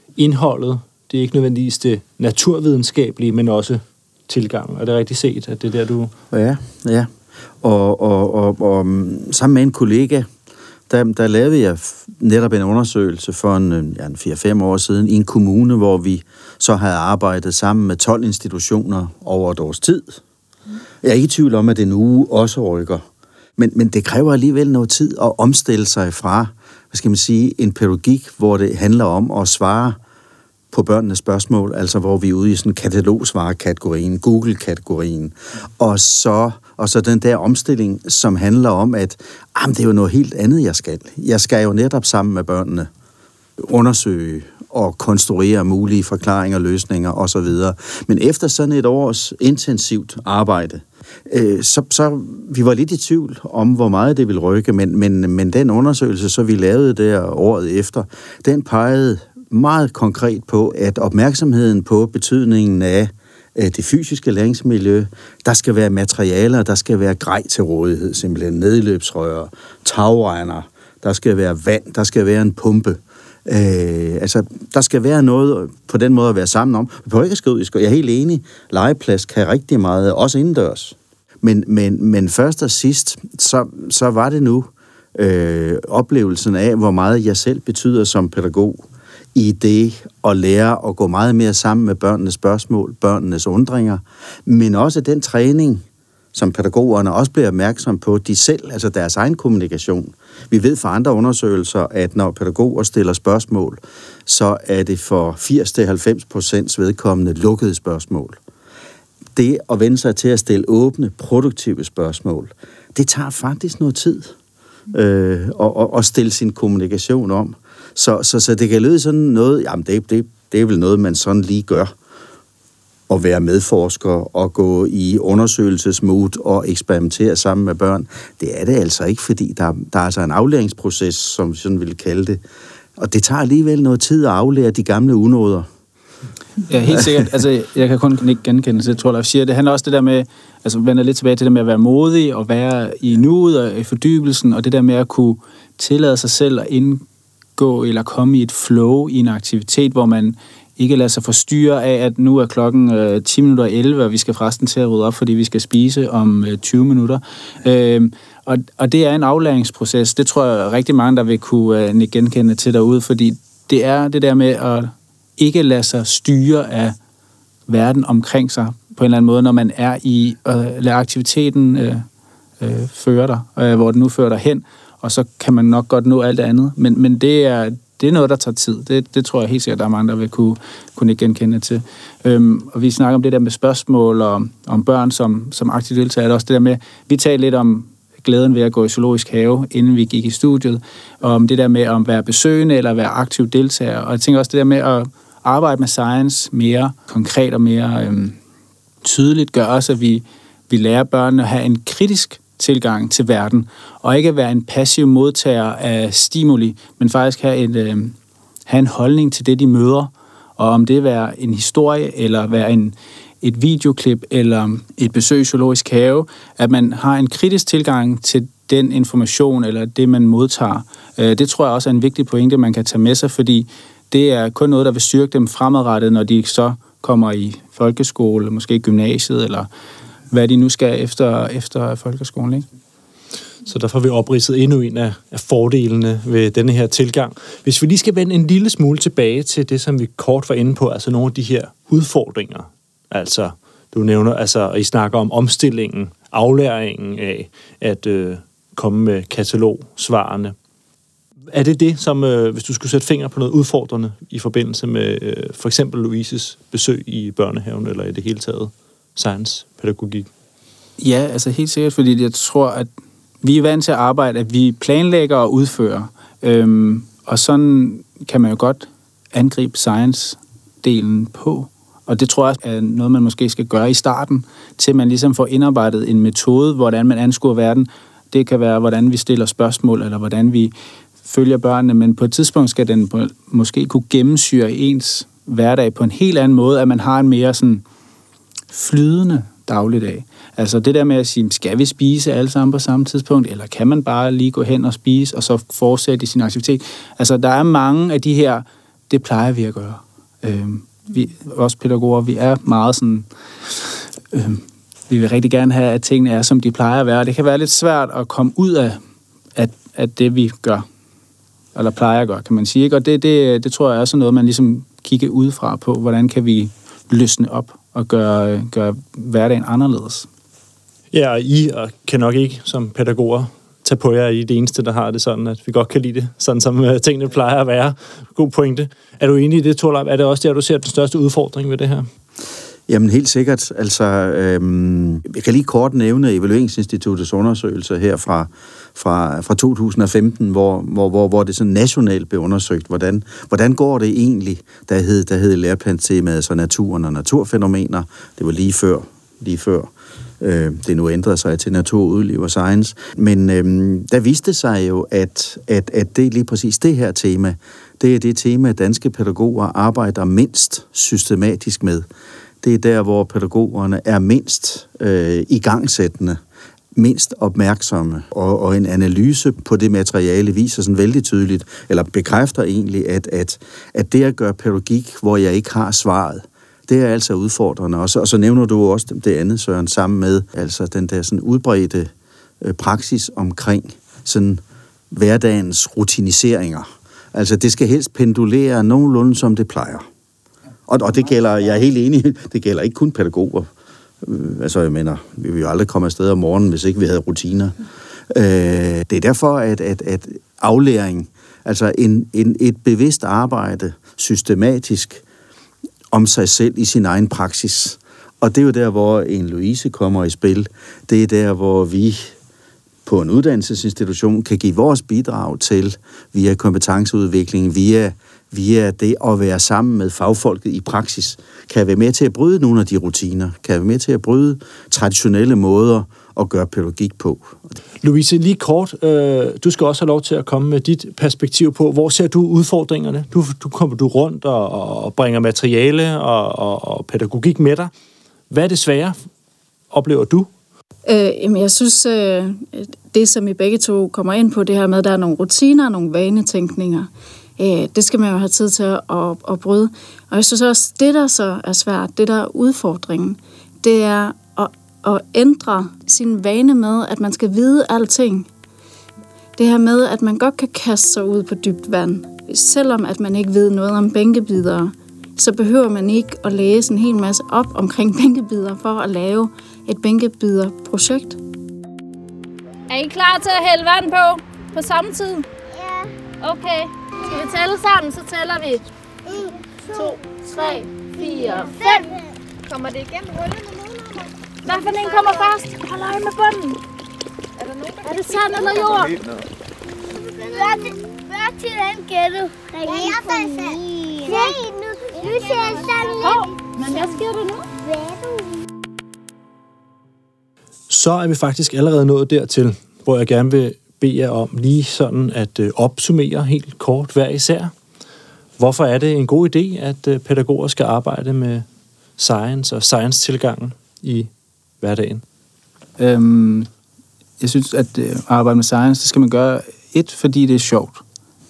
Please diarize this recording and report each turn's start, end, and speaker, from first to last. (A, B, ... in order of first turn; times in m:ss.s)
0:00.2-0:06.1 A
0:06.3-0:07.1 B
0:07.6-0:10.3 B
0:10.9-0:20.2 B
0:21.0-0:23.0 B
0:23.6-0:30.0 B
0:30.7-0:42.9 B
0:43.6-1:28.8 B
1:29.3-1:48.4 B
1:49.3-1:54.3 B
1:54.9-2:01.9 B
2:03.1-2:12.4 B
2:13.0-2:15.7 B
2:16.7-2:27.0 C
2:27.6-2:47.0 C
2:47.7-2:52.0 C
2:52.6-3:18.4 C
3:19.0-3:28.2 C
3:28.7-3:49.7 C
3:50.3-3:52.6 C
3:53.7-4:10.5 A
4:11.5-4:20.3 A
4:21.0-4:22.9 C
4:23.4-4:40.7 C
4:41.2-4:47.8 C
4:48.7-5:03.2 C
5:03.8-5:09.0 C
5:09.6-5:10.8 C
5:11.8-5:20.3 C
5:21.1-5:32.1 A
5:32.9-6:02.1 B
6:02.6-6:06.4 B
6:07.0-6:30.0 B
6:30.9-6:33.7 B
6:34.2-6:37.7 B
6:38.3-6:45.2 B
6:46.1-6:52.3 B
6:53.0-7:07.6 B
7:08.0-7:17.9 A
7:18.5-7:19.2 A
7:19.9-7:20.5 A
7:21.0-7:38.5 D
7:39.6-7:51.4 D
7:52.9-7:55.4 E
7:54.2-7:55.4 D
7:55.7-7:56.1 F
7:57.3-7:58.6 D
7:57.3-7:58.8 E
7:59.3-8:00.1 F
8:00.5-8:01.9 D
8:01.2-8:01.7 E
8:01.7-8:02.3 F
8:02.7-8:04.3 G
8:04.7-8:06.6 D
8:04.8-8:06.5 E
8:05.2-8:05.5 F
8:07.6-8:09.2 G
8:08.1-8:09.1 D
8:08.6-8:09.0 E
8:10.2-8:17.0 F
8:15.2-8:16.3 G
8:16.2-8:17.6 D
8:17.1-8:17.4 E
8:17.7-8:18.6 F
8:20.9-8:27.7 A
8:28.6-8:31.6 A
8:32.2-8:34.3 A
8:34.8-8:35.2 A
8:36.0-8:36.7 C
8:37.4-8:41.0 C